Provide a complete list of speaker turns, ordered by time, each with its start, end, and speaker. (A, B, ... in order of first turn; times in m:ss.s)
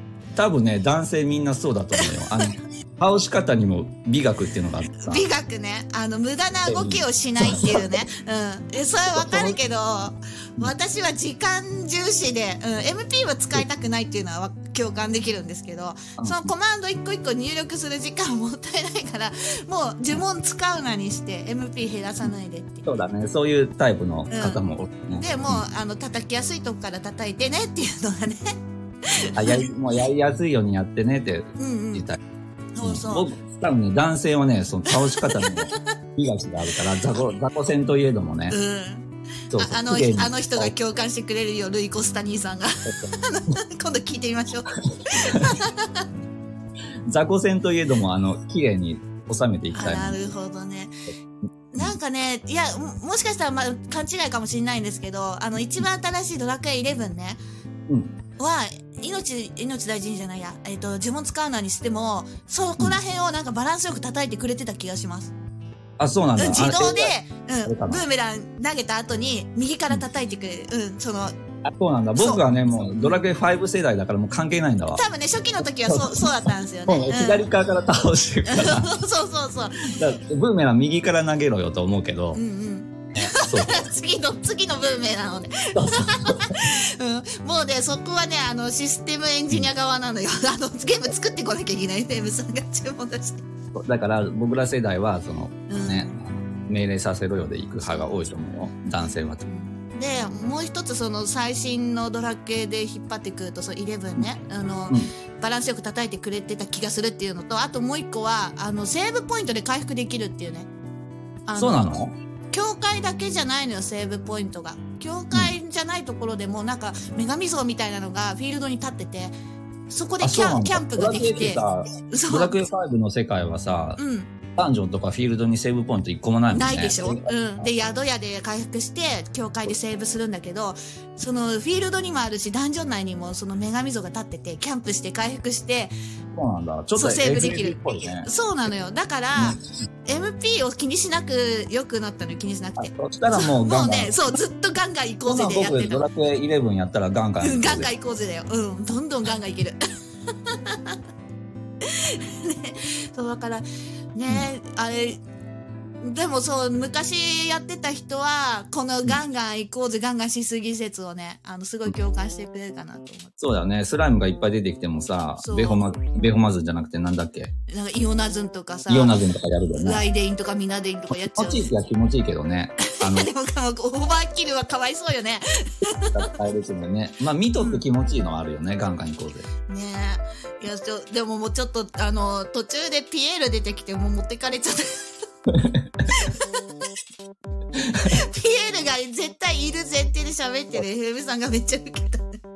0:00.4-0:05.3 A
0:02.0-0:02.6 B
0:05.0-0:23.0 B
0:06.7-0:08.0 A
0:09.1-0:09.6 A
0:16.2-0:16.5 A
0:22.8-0:25.6 A
0:24.3-0:24.6 B
0:25.1-0:28.6 B
0:29.1-0:29.6 B
0:29.3-0:32.2 A
0:31.6-0:32.0 B
0:32.8-0:33.3 B
0:32.8-0:38.6 A
0:34.9-0:35.9 B
0:38.5-0:46.1 B
0:39.5-0:40.7 A
0:45.1-0:45.6 A
0:47.1-0:50.3 A
0:49.7-0:50.9 B
0:51.7-0:57.4 B
0:57.9-0:58.2 A
0:58.4-1:05.3 B
1:06.0-1:07.1 A
1:06.4-1:11.4 B
1:07.6-1:08.0 A
1:11.6-1:15.0 A
1:12.2-1:12.4 B
1:14.9-1:17.5 B
1:15.6-1:18.9 A
1:18.5-1:19.9 B
1:19.8-1:22.4 A
1:22.3-1:33.4 B
1:23.2-1:23.9 A
1:25.8-1:26.5 A
1:33.7-1:39.4 A
1:35.7-1:36.1 B
1:38.9-1:50.7 B
1:51.5-1:51.9 B
1:51.6-1:52.1 A
1:52.5-1:59.3 B
1:59.9-2:02.6 B
2:00.2-2:04.0 A
2:04.0-2:04.3 B
2:04.6-2:07.7 A
2:06.5-2:15.9 B
2:16.3-2:18.3 A
2:16.9-2:26.0 B
2:22.8-2:24.2 A
2:25.2-2:27.9 A
2:27.4-2:29.8 B
2:30.5-2:31.0 B
2:31.8-2:35.2 B
2:36.0-2:43.3 B
2:43.4-2:47.5 A
2:45.4-2:45.9 B
2:47.7-2:49.2 B
2:48.9-2:50.0 A
2:49.8-2:51.7 B
2:51.1-2:53.3 A
2:52.8-2:56.3 B
2:56.1-2:59.5 A
2:57.6-2:57.8 B
2:59.7-3:05.2 B
3:05.5-3:06.0 A
3:06.1-3:06.5 B
3:08.0-3:12.4 B